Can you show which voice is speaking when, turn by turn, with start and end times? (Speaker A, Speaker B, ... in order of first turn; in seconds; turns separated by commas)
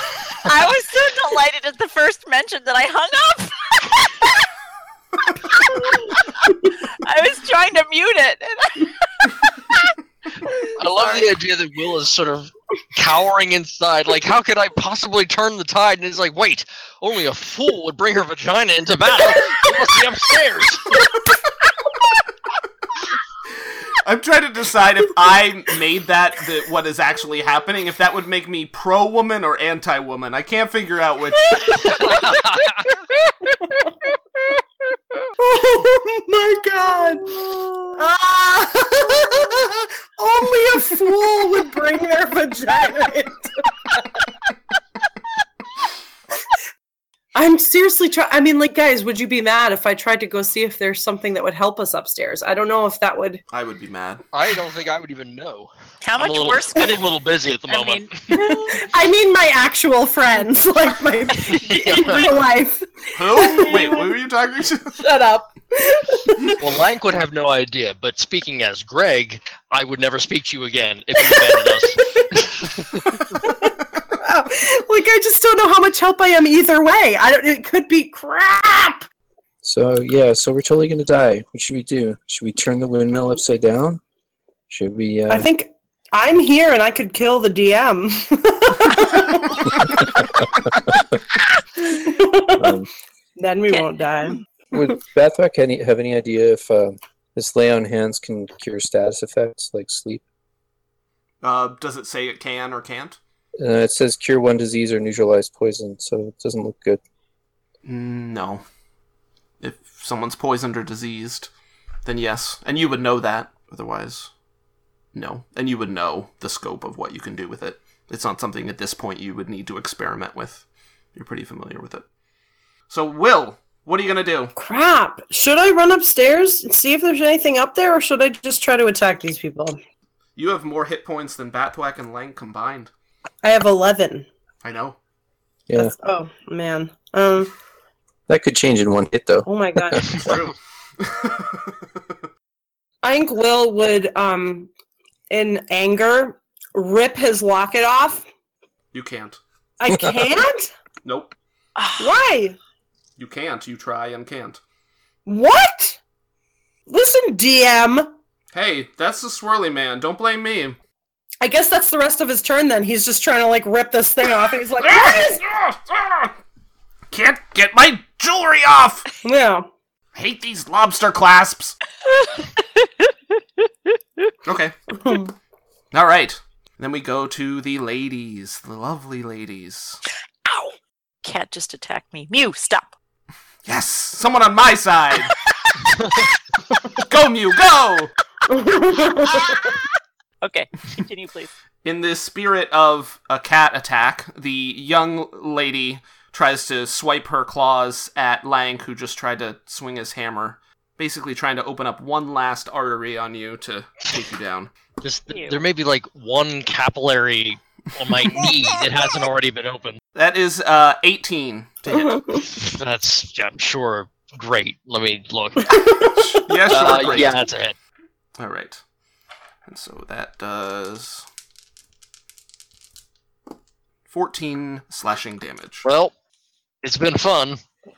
Speaker A: 0.4-4.4, Speaker A: 5.5-9.8, Speaker B: 10.6-21.1, Speaker A: 11.0-11.2, Speaker C: 23.6-32.0, Speaker D: 31.6-32.4, Speaker B: 31.8-32.9, Speaker D: 33.5-33.9, Speaker D: 35.4-44.3, Speaker D: 47.4-53.4, Speaker C: 53.5-54.2, Speaker B: 54.3-58.5, Speaker A: 56.0-57.0, Speaker A: 57.7-58.8, Speaker D: 58.3-64.1, Speaker B: 61.4-62.3, Speaker C: 63.1-65.0, Speaker D: 65.0-66.7, Speaker B: 66.6-73.2, Speaker D: 71.2-72.3, Speaker D: 74.2-79.1, Speaker E: 79.6-84.0, Speaker E: 84.7-85.5, Speaker D: 85.3-91.0, Speaker D: 91.8-92.8, Speaker E: 92.6-92.9, Speaker D: 93.4-94.8, Speaker E: 94.7-100.2, Speaker C: 101.4-103.2, Speaker E: 103.6-107.0, Speaker C: 107.8-108.6, Speaker C: 109.6-111.5, Speaker C: 112.0-114.3, Speaker C: 115.1-122.0, Speaker C: 122.9-124.5, Speaker D: 124.6-129.8, Speaker C: 130.4-132.9, Speaker D: 133.4-134.3, Speaker C: 134.6-135.0, Speaker E: 135.7-135.9, Speaker D: 135.8-137.5, Speaker E: 138.3-140.2, Speaker D: 139.5-140.1, Speaker C: 140.2-141.9, Speaker D: 143.0-144.7, Speaker D: 145.3-148.3, Speaker C: 148.9-149.4, Speaker D: 149.8-150.7, Speaker C: 151.0-151.4, Speaker A: 151.8-152.2, Speaker D: 152.0-152.6, Speaker C: 153.2-154.6, Speaker D: 155.3-156.0, Speaker D: 156.9-158.1, Speaker C: 158.5-160.8, Speaker D: 161.4-165.4, Speaker C: 164.8-166.3, Speaker C: 167.1-169.1, Speaker D: 169.2-169.7, Speaker C: 170.2-171.8, Speaker A: 172.1-173.1, Speaker C: 174.5-174.8, Speaker D: 175.0-175.3, Speaker C: 175.9-180.0, Speaker A: 180.5-182.9, Speaker C: 183.7-185.3, Speaker B: 186.0-186.2, Speaker C: 187.0-188.1, Speaker D: 188.5-189.8, Speaker A: 189.3-189.8, Speaker A: 190.4-191.5, Speaker C: 191.8-204.7, Speaker B: 205.0-210.0, Speaker A: 205.3-205.6, Speaker C: 210.2-212.2, Speaker D: 211.9-212.4, Speaker B: 212.6-215.8, Speaker C: 216.0-217.4, Speaker B: 216.7-217.8, Speaker C: 218.4-218.8, Speaker C: 219.7-221.3, Speaker C: 224.1-225.9, Speaker B: 225.8-226.1, Speaker B: 226.8-227.6